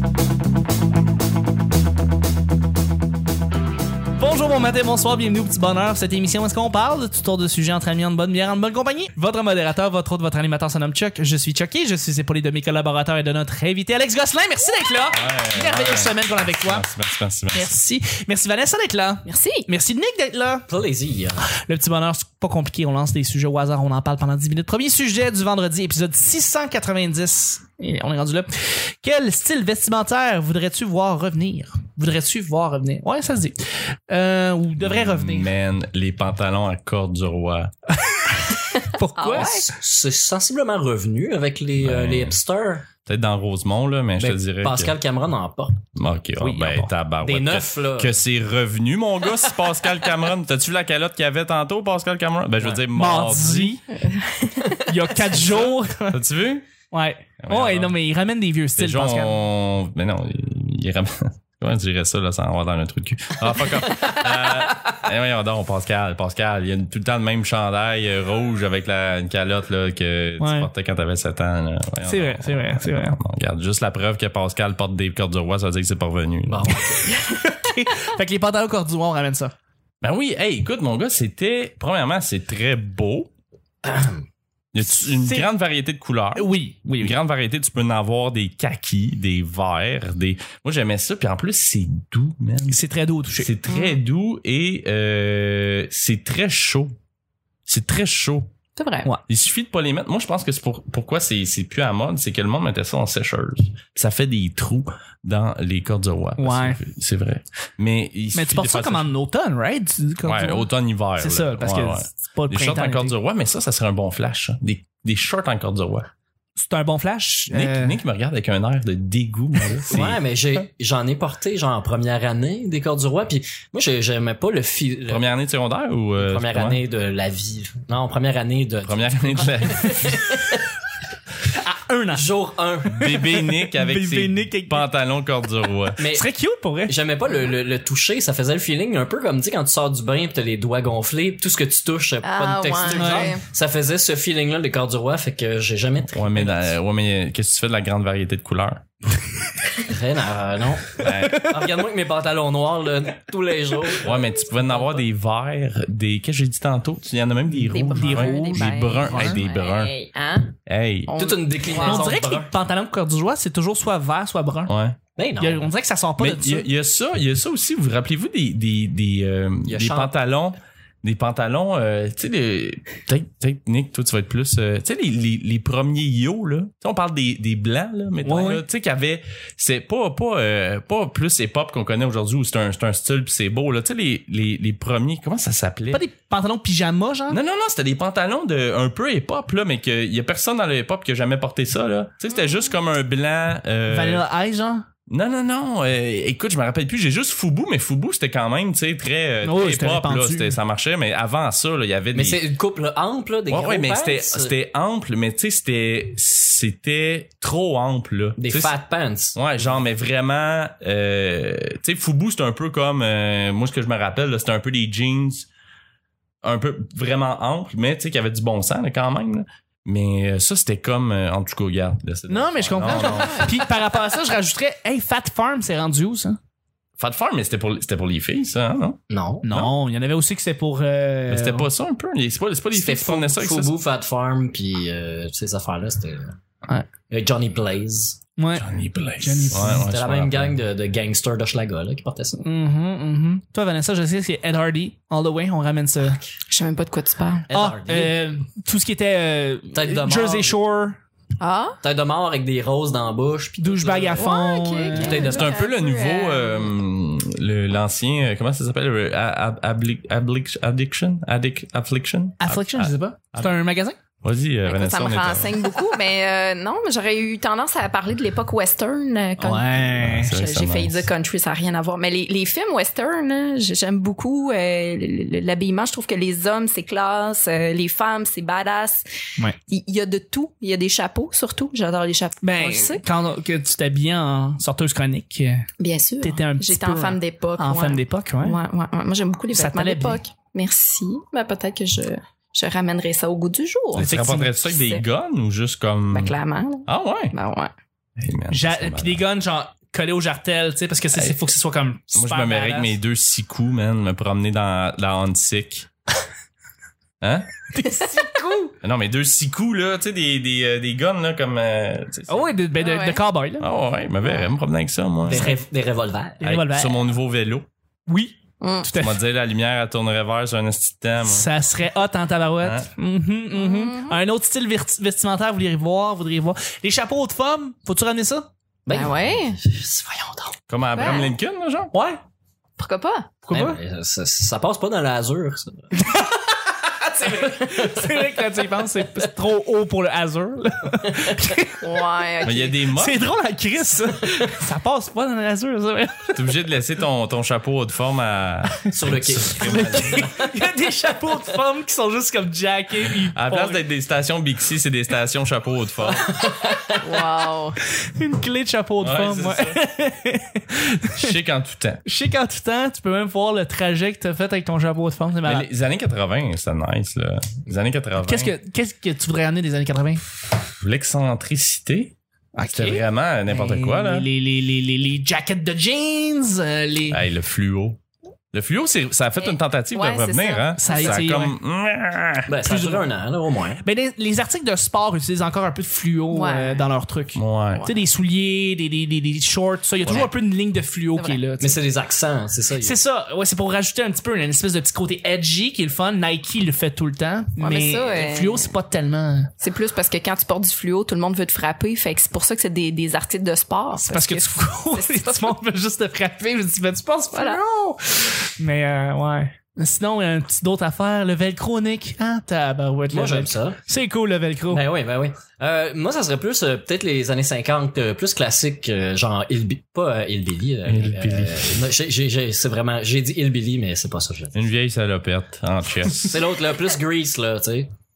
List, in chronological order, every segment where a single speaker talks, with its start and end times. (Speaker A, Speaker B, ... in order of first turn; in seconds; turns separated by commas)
Speaker A: 4.2-16.9, Speaker B: 15.1-17.7, Speaker A: 17.5-20.7, Speaker C: 19.3-19.7, Speaker D: 20.7-21.4, Speaker A: 21.4-35.5, Speaker B: 34.8-37.7, Speaker A: 37.9-39.7, Speaker C: 38.7-39.7, Speaker D: 39.4-42.9, Speaker B: 41.8-42.4, Speaker B: 43.0-44.9, Speaker D: 44.2-48.2, Speaker B: 46.0-53.8, Speaker A: 52.9-53.8, Speaker C: 53.9-54.9, Speaker A: 54.9-56.2, Speaker B: 55.4-56.7, Speaker A: 56.9-59.4, Speaker B: 57.4-58.0, Speaker B: 58.8-76.8, Speaker A: 70.4-70.7, Speaker A: 72.1-73.2, Speaker D: 76.5-77.2, Speaker A: 77.0-79.5, Speaker B: 80.0-83.3, Speaker D: 83.8-84.2, Speaker B: 84.7-92.8, Speaker A: 85.1-85.5, Speaker A: 86.3-87.2, Speaker A: 92.7-93.5, Speaker B: 93.4-97.0, Speaker C: 93.7-94.0, Speaker B: 97.7-98.5, Speaker C: 98.8-99.1, Speaker B: 99.3-109.1, Speaker A: 106.4-106.8, Speaker A: 108.3-110.7, Speaker B: 110.2-116.1, Speaker A: 111.2-113.2, Speaker A: 116.6-118.0, Speaker B: 117.5-120.2, Speaker D: 119.9-125.2, Speaker B: 125.1-126.8, Speaker D: 126.2-130.6, Speaker B: 128.8-130.3, Speaker A: 131.4-132.3, Speaker D: 132.1-133.1, Speaker B: 132.9-136.0, Speaker A: 133.0-134.9, Speaker D: 136.0-136.3, Speaker A: 136.1-136.9, Speaker D: 136.9-146.7, Speaker C: 142.2-143.4, Speaker A: 142.9-143.3, Speaker B: 146.1-148.8, Speaker D: 149.8-154.4, Speaker B: 151.0-151.5, Speaker A: 151.1-151.5, Speaker B: 154.0-159.9, Speaker C: 157.7-160.5, Speaker A: 157.9-159.4, Speaker B: 160.7-161.1, Speaker C: 161.1-162.1, Speaker D: 161.2-162.5, Speaker A: 161.7-164.7, Speaker B: 164.7-165.0, Speaker D: 165.2-165.7, Speaker A: 165.4-166.7, Speaker B: 166.2-186.0, Speaker D: 169.7-170.1, Speaker A: 178.2-178.6, Speaker A: 185.9-187.4, Speaker B: 187.3-194.2, Speaker A: 193.9-194.9, Speaker B: 195.1-202.4, Speaker A: 199.4-200.6, Speaker D: 202.1-204.5, Speaker B: 203.5-208.8, Speaker D: 208.4-209.4, Speaker B: 209.3-215.5, Speaker B: 216.4-223.5, Speaker A: 222.3-226.4, Speaker C: 222.8-223.4, Speaker B: 227.0-229.7, Speaker D: 229.1-229.5, Speaker A: 229.4-231.7, Speaker B: 231.3-233.7, Speaker D: 232.7-236.4, Speaker D: 237.1-238.2, Speaker A: 238.4-238.7, Speaker B: 238.6-240.6, Speaker A: 239.2-239.9, Speaker D: 239.5-242.4, Speaker A: 242.4-246.2, Speaker C: 246.5-247.5, Speaker D: 247.5-248.2, Speaker A: 247.5-251.0, Speaker D: 249.7-250.5, Speaker C: 251.4-251.8, Speaker D: 251.8-254.4, Speaker A: 253.6-255.2, Speaker C: 254.2-256.7, Speaker D: 254.9-255.7, Speaker B: 255.1-263.5, Speaker A: 262.4-264.0, Speaker B: 264.2-265.6, Speaker C: 264.6-269.7, Speaker A: 269.4-270.4, Speaker B: 269.9-271.1, Speaker C: 270.3-279.1, Speaker C: 279.7-283.0, Speaker A: 282.4-285.7, Speaker C: 285.8-294.1, Speaker A: 286.2-288.6, Speaker A: 289.5-290.2, Speaker B: 293.9-297.3, Speaker A: 294.0-294.5, Speaker C: 294.6-295.0, Speaker C: 296.1-297.7, Speaker B: 298.2-299.2, Speaker A: 298.5-302.9, Speaker B: 302.1-305.9, Speaker B: 307.2-307.5, Speaker A: 307.7-308.8, Speaker B: 308.8-312.5, Speaker A: 312.3-313.6, Speaker C: 312.8-313.2, Speaker B: 313.6-315.5, Speaker D: 315.3-316.4, Speaker A: 315.3-315.6, Speaker A: 316.4-317.0, Speaker B: 316.4-317.7, Speaker A: 318.1-319.2, Speaker C: 318.6-318.9, Speaker B: 319.0-321.5, Speaker A: 321.2-328.5, Speaker B: 322.6-322.9, Speaker C: 323.5-324.2, Speaker D: 328.9-330.6, Speaker C: 328.9-329.6, Speaker B: 330.7-331.9, Speaker C: 330.9-331.3, Speaker A: 331.9-332.2, Speaker C: 332.8-333.3, Speaker A: 333.5-333.8, Speaker D: 333.5-335.9, Speaker A: 335.9-336.5, Speaker D: 337.1-338.2, Speaker A: 337.2-341.9, Speaker C: 341.8-342.8, Speaker B: 342.4-343.3, Speaker A: 342.9-346.4, Speaker B: 346.3-350.3, Speaker D: 348.9-350.5, Speaker A: 349.4-353.8, Speaker B: 353.3-356.3, Speaker D: 356.1-357.0, Speaker C: 357.0-357.8, Speaker A: 358.0-361.3, Speaker B: 359.0-359.8, Speaker B: 361.2-362.0, Speaker A: 362.1-365.7, Speaker B: 365.4-368.6, Speaker A: 368.2-370.2, Speaker B: 370.7-374.3, Speaker A: 372.6-377.2, Speaker B: 377.1-378.0, Speaker B: 378.5-382.6, Speaker C: 379.4-381.2, Speaker A: 380.8-381.6, Speaker D: 382.5-383.8, Speaker A: 382.6-383.0, Speaker A: 383.8-391.8, Speaker C: 386.3-386.9, Speaker B: 387.4-387.9, Speaker D: 391.6-393.0, Speaker A: 392.8-399.5, Speaker C: 397.6-398.7, Speaker C: 399.6-405.5, Speaker A: 404.0-414.8, Speaker C: 407.3-407.6, Speaker D: 413.1-413.8, Speaker D: 414.7-424.6, Speaker B: 420.9-421.9, Speaker B: 424.6-426.4, Speaker D: 426.2-427.9